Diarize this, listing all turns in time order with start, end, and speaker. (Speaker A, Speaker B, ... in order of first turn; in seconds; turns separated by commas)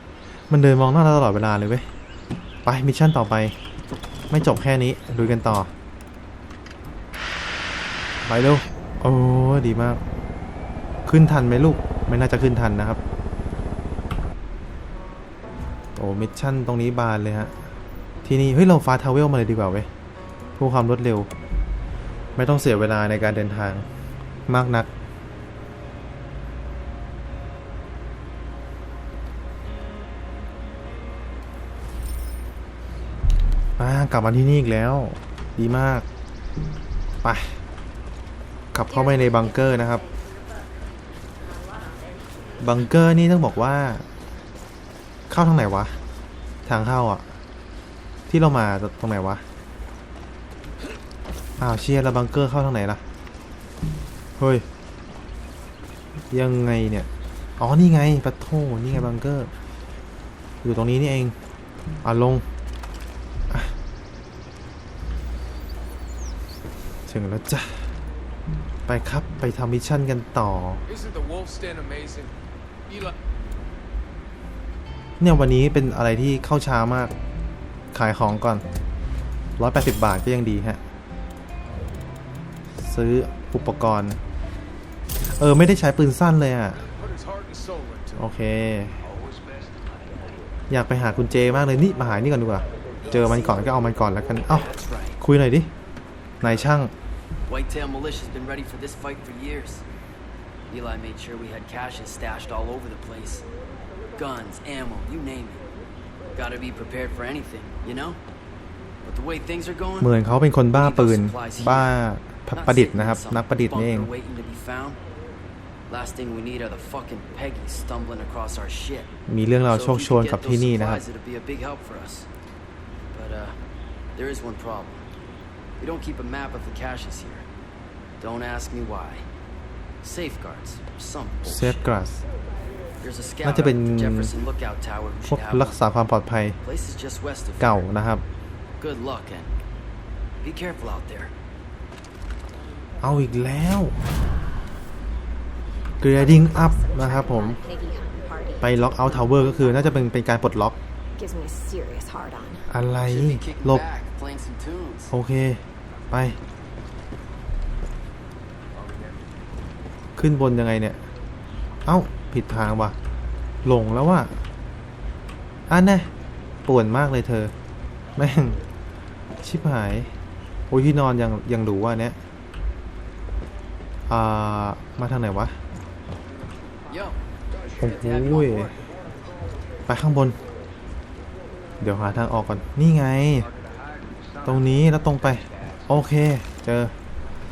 Speaker A: 0.5-1.9, Speaker A: 2.6-3.5, Speaker A: 4.3-5.7, Speaker A: 8.2-10.0, Speaker A: 11.1-13.0, Speaker A: 15.9-17.5, Speaker A: 18.2-19.9, Speaker A: 20.6-21.3, Speaker A: 22.4-23.9, Speaker A: 24.5-24.9, Speaker A: 33.8-36.0, Speaker A: 37.2-37.6, Speaker A: 38.7-40.0, Speaker B: 38.9-40.2, Speaker A: 42.6-44.0, Speaker A: 45.3-46.0, Speaker A: 46.6-47.3, Speaker A: 48.3-49.4, Speaker A: 51.6-53.0, Speaker A: 54.4-54.6, Speaker A: 56.3-59.5, Speaker A: 60.6-61.3, Speaker A: 62.0-62.4, Speaker A: 63.5-63.7, Speaker A: 67.1-68.0, Speaker A: 68.9-70.8, Speaker C: 71.0-72.3, Speaker A: 75.2-77.1, Speaker A: 77.9-78.6, Speaker A: 79.6-80.8, Speaker A: 82.8-84.2, Speaker A: 85.3-86.8, Speaker C: 87.2-88.1, Speaker A: 88.1-89.0, Speaker A: 90.7-94.7, Speaker D: 93.0-93.7, Speaker D: 94.5-95.2, Speaker A: 95.2-95.7, Speaker A: 96.4-96.9, Speaker D: 96.4-96.7, Speaker D: 97.5-99.8, Speaker D: 100.7-103.5, Speaker D: 104.2-105.7, Speaker D: 106.3-108.2, Speaker D: 109.0-110.1, Speaker A: 110.0-114.1, Speaker D: 110.7-111.9, Speaker D: 112.5-115.0, Speaker D: 115.9-119.1, Speaker A: 119.3-121.0, Speaker D: 119.7-122.3, Speaker D: 123.1-123.6, Speaker D: 124.2-125.0, Speaker D: 125.8-127.4, Speaker D: 128.2-129.2, Speaker D: 130.0-131.9, Speaker A: 131.4-132.2, Speaker D: 133.0-135.8, Speaker A: 133.4-134.3, Speaker A: 135.3-136.6, Speaker D: 136.6-137.9, Speaker A: 137.6-138.2, Speaker D: 138.8-139.5, Speaker D: 140.4-141.3, Speaker A: 143.0-144.0, Speaker A: 146.0-147.6, Speaker B: 146.0-150.1, Speaker A: 148.6-150.8, Speaker B: 151.2-152.7, Speaker A: 152.7-153.8, Speaker D: 153.1-155.1, Speaker A: 155.1-156.4, Speaker A: 160.2-161.1, Speaker A: 161.8-162.9, Speaker A: 163.6-164.3, Speaker A: 165.7-166.1, Speaker A: 166.7-167.5, Speaker A: 168.2-168.6, Speaker A: 169.4-170.1, Speaker A: 170.7-172.2, Speaker A: 174.1-175.6, Speaker D: 176.9-177.2, Speaker D: 177.8-178.8, Speaker A: 177.8-178.7, Speaker A: 179.9-180.4, Speaker A: 181.8-183.5, Speaker A: 184.4-186.9